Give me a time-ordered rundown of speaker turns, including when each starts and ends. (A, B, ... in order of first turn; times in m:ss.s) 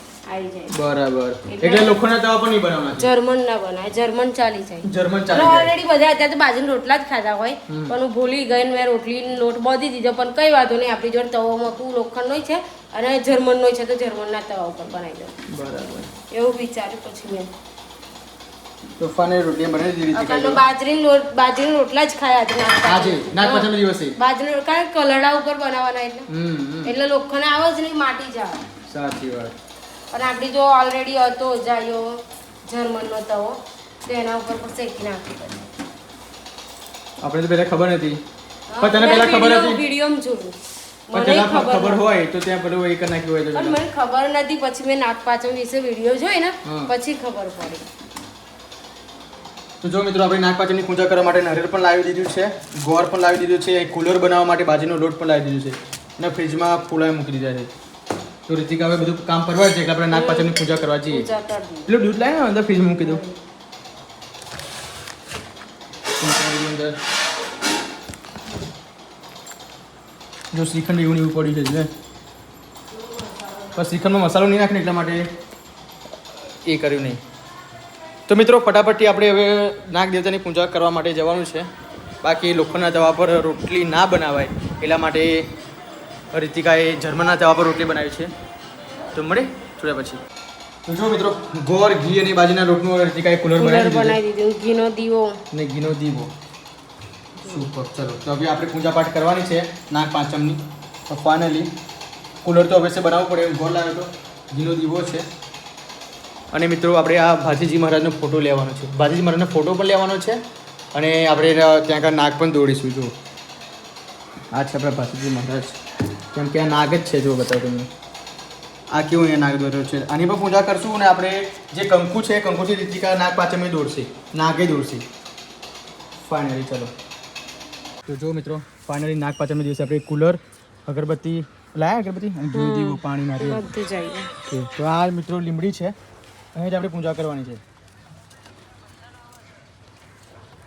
0:00.3-0:00.7 A
0:00.7-0:03.1 B
0:01.5-0:01.9 A
0:03.0-0:15.4 A
0:04.8-0:05.7 B
0:07.7-0:07.9 B
0:15.5-0:16.1 B
0:16.3-0:17.5 A
0:19.0-0:20.6 B
0:20.1-0:26.3 A
0:22.8-0:24.2 B
0:26.3-0:26.9 B
0:26.8-0:28.6 A
0:28.9-0:29.6 B
0:30.1-0:35.6 A
0:37.2-0:38.2 B
0:38.7-0:40.6 A
0:38.8-0:39.8 B
0:41.1-0:42.0 A
0:41.1-0:43.8 B
0:43.5-0:47.8 A
0:46.6-0:46.9 B
0:49.8-0:57.7 B
0:58.5-1:01.3 B
1:00.1-1:00.5 A
1:01.1-1:01.9 A
1:01.9-1:03.2 B
1:03.0-1:03.4 A
1:06.2-1:07.0 B
1:10.5-1:11.9 B
1:13.0-1:13.6 A
1:13.7-1:15.3 B
1:16.6-1:17.2 B
1:18.3-1:21.7 B
1:22.2-1:25.5 B
1:26.3-1:28.3 B
1:29.1-1:30.2 B
1:30.8-1:34.2 B
1:33.6-1:35.4 A
1:35.5-1:36.3 B
1:37.5-1:41.7 B
1:42.4-1:45.2 B
1:46.5-1:50.4 B
1:50.9-1:53.1 B
1:54.5-1:55.8 B
1:56.3-1:57.9 B
1:58.9-2:05.0 B
2:06.2-2:06.9 B
2:08.0-2:13.6 B
2:12.5-2:14.3 A
2:14.5-2:15.9 B
2:16.5-2:17.6 B